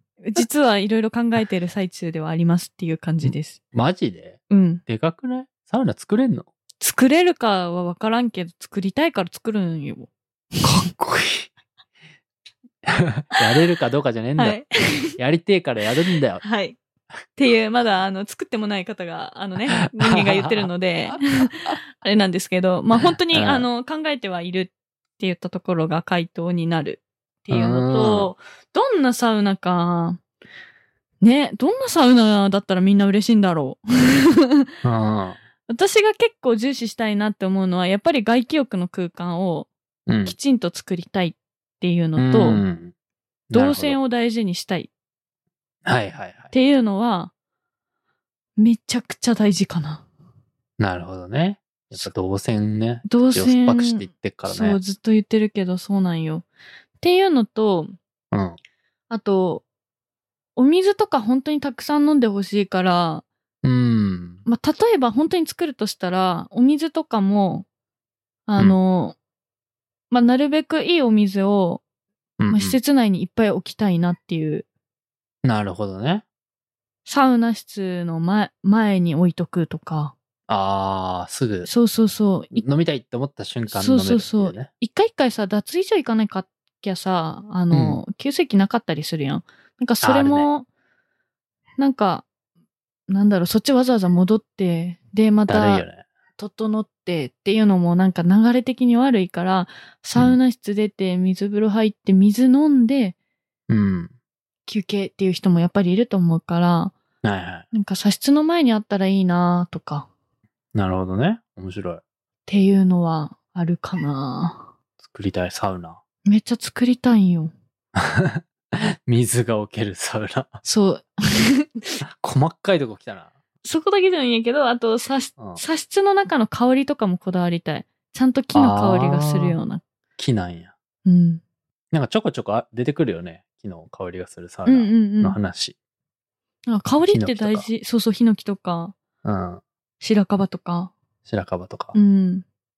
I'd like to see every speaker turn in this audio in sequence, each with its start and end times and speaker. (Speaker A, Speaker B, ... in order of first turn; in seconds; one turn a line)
Speaker A: 0.2-3.6
Speaker B: 3.2-6.5
Speaker A: 4.5-4.8
Speaker A: 6.8-10.9
Speaker B: 10.6-11.5
Speaker B: 12.8-14.6
Speaker A: 14.4-15.2
Speaker B: 15.2-16.4
Speaker A: 16.4-16.8
Speaker A: 17.4-30.2
Speaker B: 20.6-21.1
Speaker B: 22.9-23.7
Speaker B: 27.5-28.3
Speaker A: 31.2-34.7
Speaker B: 34.8-35.4
Speaker A: 35.7-39.7
Speaker B: 40.1-40.4
Speaker A: 40.2-42.6
Speaker B: 42.2-42.9
Speaker B: 43.5-44.0
Speaker A: 43.5-44.9
Speaker B: 45.9-46.5
Speaker A: 46.5-47.3
Speaker A: 48.6-50.0
Speaker B: 50.8-54.8
Speaker A: 53.1-56.5
Speaker A: 57.0-57.9
Speaker B: 58.3-58.6
Speaker A: 59.1-59.6
Speaker A: 60.5-63.2
Speaker B: 63.6-64.4
Speaker A: 64.5-67.7
Speaker A: 68.5-69.2
Speaker A: 70.1-71.8
Speaker B: 72.4-72.8
Speaker A: 72.5-74.7
Speaker B: 75.4-76.2
Speaker A: 77.0-80.1
Speaker B: 80.5-81.7
Speaker A: 81.6-82.6
Speaker B: 82.5-84.7
Speaker A: 83.7-90.7
Speaker B: 87.7-88.0
Speaker B: 90.0-90.5
Speaker A: 91.8-92.3
Speaker A: 93.1-95.8
Speaker B: 95.5-96.0
Speaker A: 96.4-103.1
Speaker B: 103.7-104.1
Speaker A: 104.7-106.9
Speaker B: 107.2-107.6
Speaker A: 107.7-110.1
Speaker B: 110.7-112.0
Speaker A: 112.5-114.7
Speaker B: 115.0-116.0
Speaker A: 116.2-117.5
Speaker B: 118.0-120.6
Speaker A: 120.6-121.8
Speaker B: 122.2-123.3
Speaker A: 123.6-129.8
Speaker B: 128.5-129.6
Speaker B: 130.2-130.7
Speaker A: 131.1-131.4
Speaker B: 131.9-135.7
Speaker A: 134.7-135.4
Speaker A: 136.7-138.9
Speaker B: 137.1-137.7
Speaker B: 139.2-139.6
Speaker A: 140.0-140.9
Speaker B: 141.2-141.9
Speaker A: 141.9-142.4